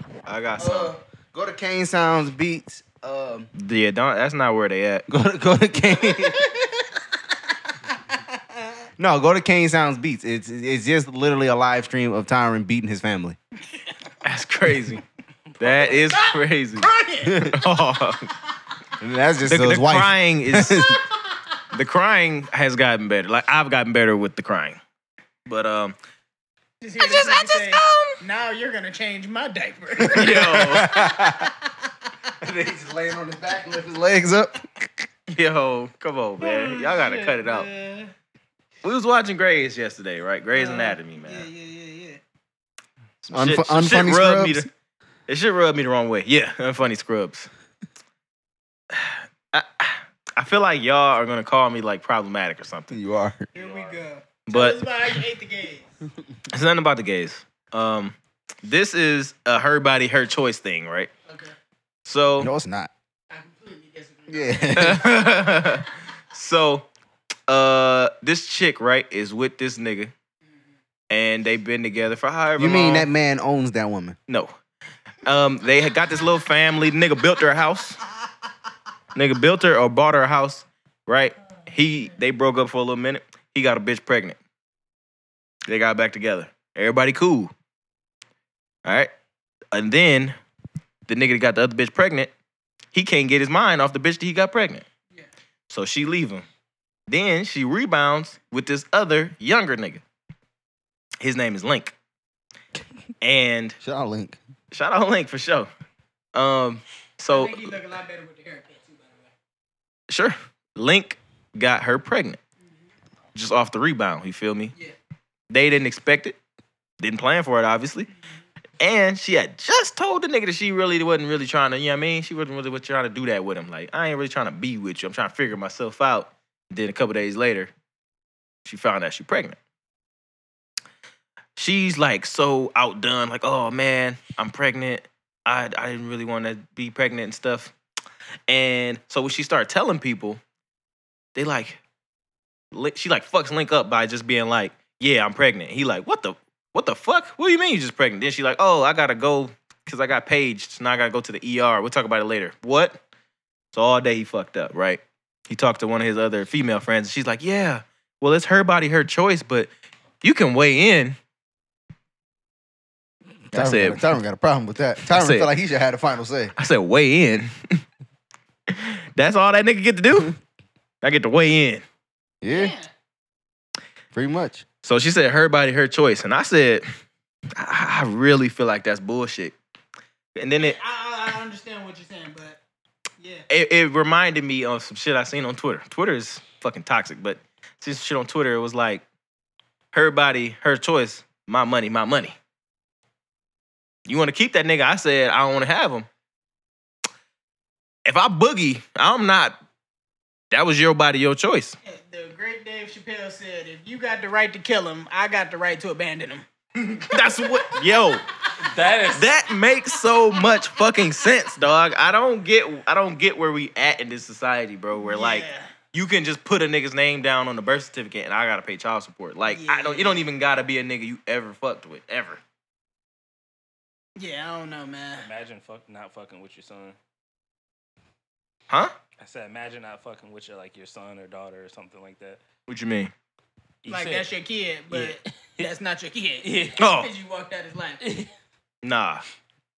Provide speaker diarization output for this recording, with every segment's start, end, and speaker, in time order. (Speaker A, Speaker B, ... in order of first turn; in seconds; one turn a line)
Speaker A: 0.2-0.9
Speaker B: 0.6-3.5
Speaker A: 3.5-5.0
Speaker B: 5.1-6.5
Speaker C: 6.0-7.0
Speaker C: 7.9-8.8
Speaker B: 9.0-13.4
Speaker A: 14.2-15.0
Speaker A: 15.6-16.9
Speaker C: 16.1-17.6
Speaker B: 17.2-17.5
Speaker A: 17.4-18.3
Speaker B: 19.0-21.0
Speaker A: 19.5-20.8
Speaker C: 20.8-21.4
Speaker A: 21.7-24.8
Speaker A: 25.4-25.9
Speaker C: 26.8-31.7
Speaker A: 27.0-28.2
Speaker B: 30.0-31.5
Speaker A: 30.1-30.9
Speaker B: 32.4-34.5
Speaker A: 35.3-37.7
Speaker C: 36.4-38.1
Speaker A: 38.8-41.5
Speaker C: 40.5-42.2
Speaker A: 43.2-44.7
Speaker B: 43.3-44.7
Speaker A: 45.3-47.5
Speaker A: 48.9-53.0
Speaker B: 52.9-53.5
Speaker A: 53.5-54.0
Speaker C: 53.5-55.9
Speaker A: 54.5-54.8
Speaker A: 56.5-61.1
Speaker C: 61.3-61.5
Speaker A: 62.0-62.5
Speaker B: 62.4-62.9
Speaker C: 63.3-65.0
Speaker B: 64.3-65.0
Speaker A: 64.8-66.9
Speaker A: 67.5-70.1
Speaker A: 71.1-73.1
Speaker B: 72.6-74.2
Speaker A: 75.2-78.0
Speaker A: 79.1-84.4
Speaker A: 85.7-87.5
Speaker A: 88.8-89.1
Speaker A: 89.7-90.3
Speaker A: 91.1-92.3
Speaker A: 92.9-94.8
Speaker A: 95.7-96.5
Speaker A: 97.1-100.0
Speaker A: 101.2-101.9
Speaker A: 103.2-103.8
Speaker B: 103.8-104.4
Speaker A: 104.7-105.7
Speaker A: 106.3-107.7
Speaker C: 107.3-109.3
Speaker A: 110.1-112.4
Speaker A: 113.3-114.7
Speaker A: 115.5-116.4
Speaker A: 117.0-118.1
Speaker A: 118.8-127.7
Speaker A: 128.6-129.6
Speaker A: 131.6-137.7
Speaker A: 138.5-140.4
Speaker A: 141.3-141.8
Speaker A: 142.7-153.0
Speaker A: 153.7-159.7
Speaker A: 160.2-161.2
Speaker A: 163.5-164.1
Speaker B: 163.5-166.5
Speaker A: 165.0-165.5
Speaker A: 166.6-167.8
Speaker A: 168.7-170.3
Speaker A: 171.0-171.8
Speaker B: 172.4-172.7
Speaker C: 172.5-172.9
Speaker B: 174.1-174.6
Speaker A: 174.8-176.8
Speaker A: 177.5-179.6
Speaker A: 180.3-180.8
Speaker C: 180.6-182.6
Speaker C: 183.2-183.4
Speaker A: 183.5-189.0
Speaker A: 189.9-192.3
Speaker A: 194.1-196.1
Speaker A: 198.1-199.6
Speaker A: 200.5-201.8
Speaker C: 201.8-206.4
Speaker A: 206.8-208.2
Speaker C: 207.1-207.8
Speaker D: 208.6-209.3
Speaker A: 209.1-222.4
Speaker C: 214.9-215.7
Speaker C: 219.5-220.3
Speaker C: 224.2-225.3
Speaker D: 225.2-226.9
Speaker A: 228.7-228.9
Speaker D: 229.2-232.4
Speaker A: 232.7-233.1
Speaker D: 233.8-234.3
Speaker C: 233.9-238.0
Speaker D: 234.9-235.7
Speaker D: 236.4-236.8
Speaker A: 236.8-237.1
Speaker D: 238.0-238.3
Speaker A: 238.8-239.2